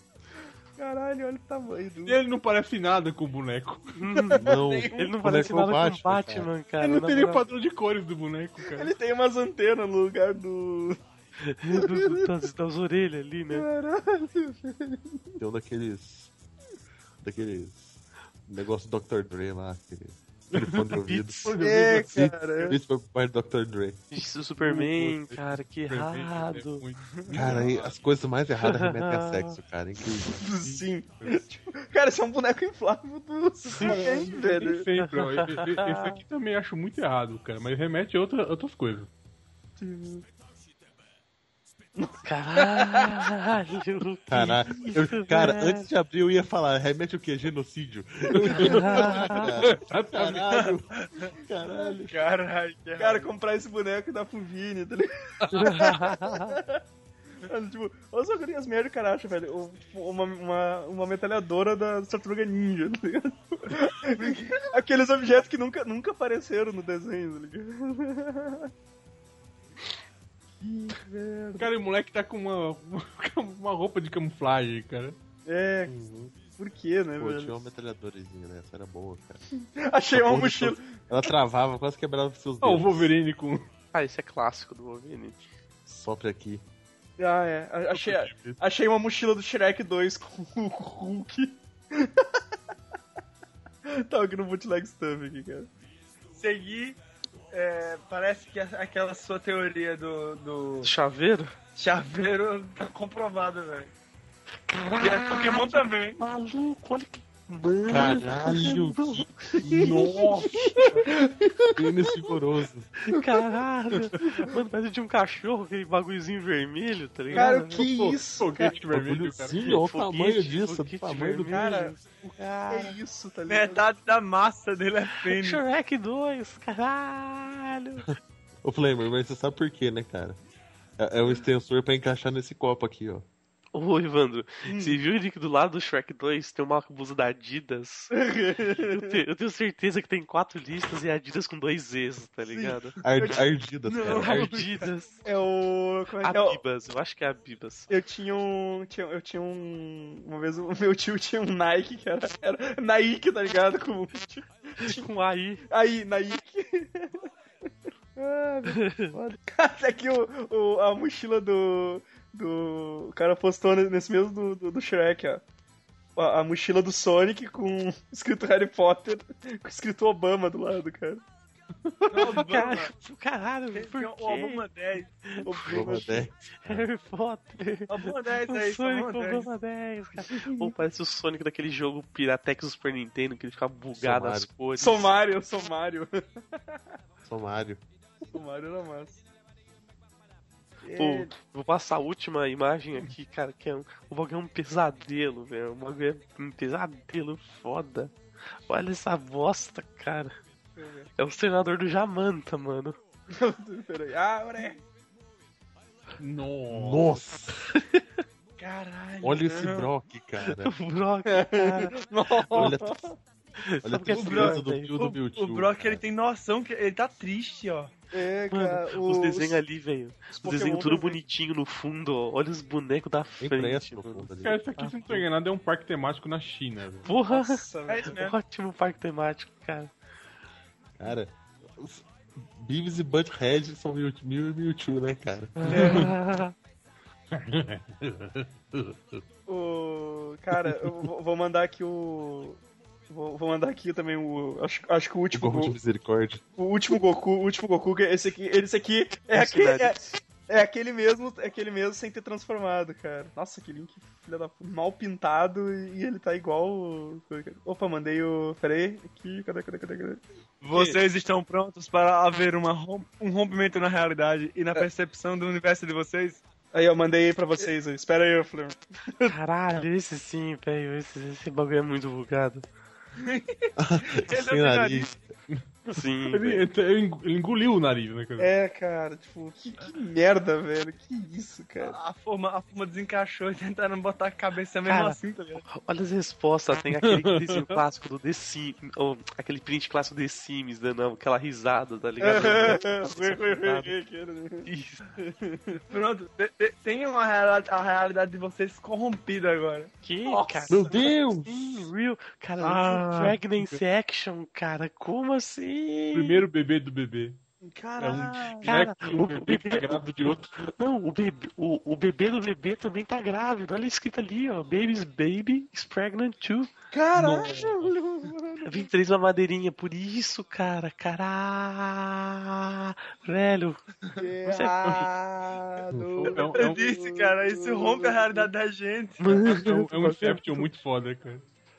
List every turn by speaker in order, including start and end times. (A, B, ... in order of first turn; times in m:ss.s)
0:00.8-0:02.2 A
0:02.1-0:04.0 B
0:04.0-0:07.4 C
0:04.3-0:05.0 A
0:04.4-0:06.5 D
0:06.8-0:08.9 B
0:08.6-0:11.0 A
0:11.4-0:13.7 C
0:11.7-0:12.3 A
0:13.5-0:15.4 A
0:15.4-0:16.3 D
0:17.2-0:21.5 D
0:20.5-0:22.3 B
0:21.1-0:21.5 C
0:21.6-0:22.8 A
0:22.1-0:24.0 D
0:24.1-0:26.8 C
0:24.6-0:27.9 B
0:27.3-0:30.5 D
0:27.4-0:27.6 A
0:28.6-0:29.6 C
0:30.4-0:34.9 A
0:30.6-0:31.4 B
0:33.7-0:34.3 C
0:33.8-0:39.1 B
0:35.0-0:36.2 C
0:39.8-0:40.2 A
0:42.0-0:43.2 A
0:42.2-0:45.9 C
0:44.3-0:52.1 D
0:48.4-0:50.5 B
0:48.7-0:49.4 C
0:50.5-0:51.3 E
0:52.1-0:53.3 E
0:53.0-0:56.8 A
0:55.5-0:56.5 C
0:57.5-1:08.7 A
1:10.6-1:11.7 A
1:11.6-1:15.2 B
1:15.5-1:16.0 A
1:16.6-1:17.6 A
1:17.2-1:19.4 D
1:19.8-1:21.0 A
1:20.1-1:23.1 D
1:22.6-1:23.7 B
1:23.9-1:25.4 C
1:25.9-1:26.6 D
1:27.2-1:32.4 A
1:33.9-1:35.7 A
1:36.4-1:37.0 E
1:37.5-1:40.9 E
1:40.8-1:41.6 C
1:41.8-1:43.9 E
1:44.7-1:49.3 C
1:45.0-1:46.2 E
1:47.9-1:50.1 D
1:49.6-1:50.1 A
1:49.7-1:51.0 B
1:50.6-1:51.8 A
1:51.8-1:52.9 D
1:53.0-1:57.9 C
1:53.2-1:53.4 A
1:54.2-1:54.5 A
1:57.3-1:58.8 A
1:57.4-1:59.6 B
1:58.9-2:01.7 D
1:59.6-2:03.0 C
2:01.5-2:02.0 A
2:02.7-2:03.9 A
2:03.5-2:05.6 E
2:05.1-2:08.1 C
2:08.6-2:10.4 D
2:11.0-2:13.3 D
2:13.8-2:18.1 C
2:14.7-2:15.0 A
2:18.1-2:19.2 A
2:18.7-2:23.0 C
2:22.5-2:23.4 A
2:23.0-2:24.6 D
2:23.9-2:24.8 E
2:24.1-2:25.2 C
2:25.2-2:26.6 A
2:26.2-2:27.9 C
2:27.9-2:35.1 A
2:34.8-2:35.6 C
2:35.7-2:37.2 A
2:38.2-2:45.4 A
2:38.7-2:39.1 C
2:46.2-2:51.2 A
2:52.1-2:52.9 E
2:52.2-2:54.6 C
2:53.7-2:55.1 E
2:55.3-2:56.0 C
2:55.4-2:56.3 A
2:55.6-2:56.9 D
2:56.6-3:05.1 C
2:57.9-2:59.5 E
3:00.3-3:00.7 A
3:04.0-3:04.5 D
3:04.8-3:06.1 A
3:07.3-3:07.8 D
3:08.3-3:09.2 A
3:10.8-3:11.3 A
3:11.0-3:18.1 C
3:18.7-3:20.4 C
3:20.8-3:21.1 A
3:21.2-3:23.0 C
3:23.3-3:24.8 A
3:26.2-3:27.2 B
3:26.7-3:27.7 D
3:27.8-3:28.1 C
3:28.6-3:29.9 E
3:29.2-3:30.7 D
3:30.5-3:31.9 C
3:31.3-3:33.2 A
3:32.5-3:33.0 D
3:33.6-3:35.0 C
3:33.8-3:36.0 D
3:34.1-3:37.9 E
3:38.1-3:39.6 A
3:38.5-3:45.2 C
3:40.3-3:41.2 A
3:43.4-3:44.6 D
3:44.4-3:47.1 B
3:47.0-3:49.9 C
3:47.3-3:48.2 A
3:47.9-3:48.4 E
3:51.0-3:56.0 D
3:55.6-3:56.5 C
3:55.7-3:56.1 A
3:55.7-3:56.1 B
3:57.3-3:59.2 B
3:59.5-4:05.8 A
4:05.3-4:06.4 D
4:06.6-4:21.0 A
4:09.3-4:10.2 C
4:20.6-4:26.4 E
4:26.7-4:29.3 A
4:29.3-4:32.6 C
4:33.2-4:35.1 E
4:33.8-4:35.2 D
4:35.9-4:36.6 C
4:36.3-4:38.5 B
4:38.4-4:42.0 A
4:41.8-4:45.6 E
4:44.9-4:45.2 C
4:45.7-4:53.9 C
4:47.0-4:47.8 B
4:52.2-4:55.8 A
4:54.7-4:55.0 C
4:55.9-5:00.9 E
5:00.0-5:06.4 C
5:00.7-5:01.9 D
5:02.6-5:03.8 B
5:06.1-5:07.4 B
5:07.6-5:08.8 A
5:08.0-5:10.5 B
5:08.6-5:10.1 C
5:10.6-5:16.7 C
5:16.9-5:18.9 A
5:17.1-5:18.0 B
5:18.7-5:23.8 C
5:24.2-5:28.5 A
5:24.4-5:25.1 C
5:25.9-5:26.2 D
5:26.2-5:26.8 B
5:26.4-5:29.4 E
5:29.2-5:30.7 C
5:29.4-5:31.4 B